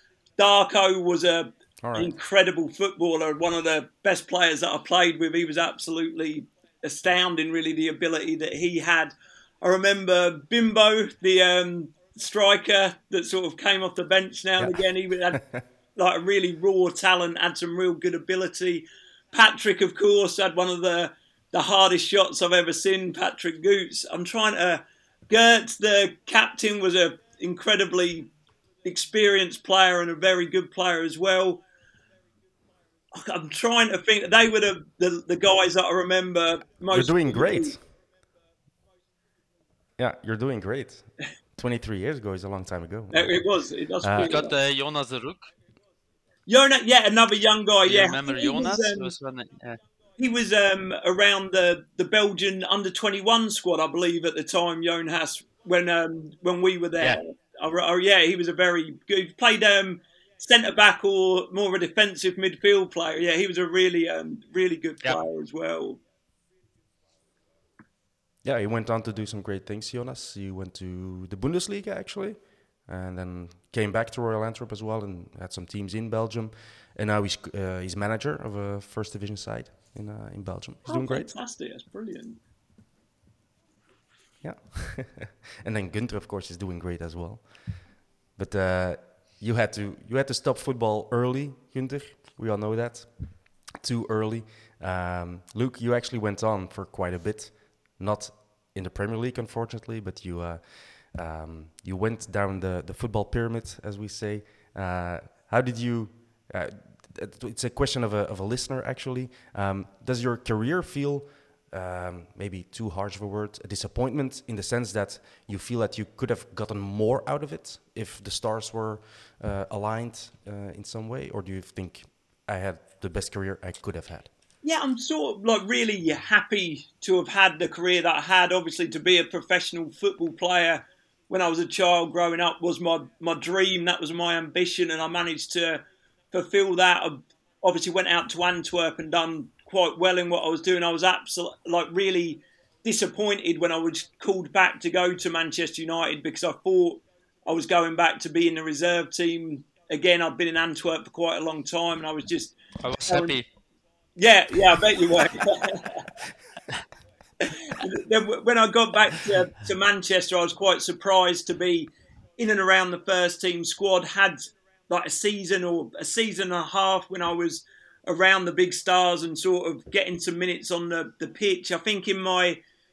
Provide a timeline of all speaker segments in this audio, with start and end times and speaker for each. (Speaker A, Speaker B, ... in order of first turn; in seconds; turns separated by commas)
Speaker A: 0.4-15.4, Speaker B: 1.8-2.1, Speaker A: 16.0-28.3, Speaker A: 28.8-31.6, Speaker A: 33.1-37.8, Speaker B: 36.9-37.8, Speaker B: 40.0-43.4, Speaker A: 43.1-44.5, Speaker B: 44.0-44.4, Speaker C: 44.2-45.5, Speaker A: 46.5-49.1, Speaker C: 47.9-49.8, Speaker A: 50.2-66.0, Speaker B: 68.4-81.3, Speaker A: 80.9-82.4, Speaker B: 84.4-124.3, Speaker A: 124.6-152.6, Speaker C: 152.8-153.5, Speaker A: 153.1-153.4, Speaker A: 154.2-156.0, Speaker A: 157.6-172.6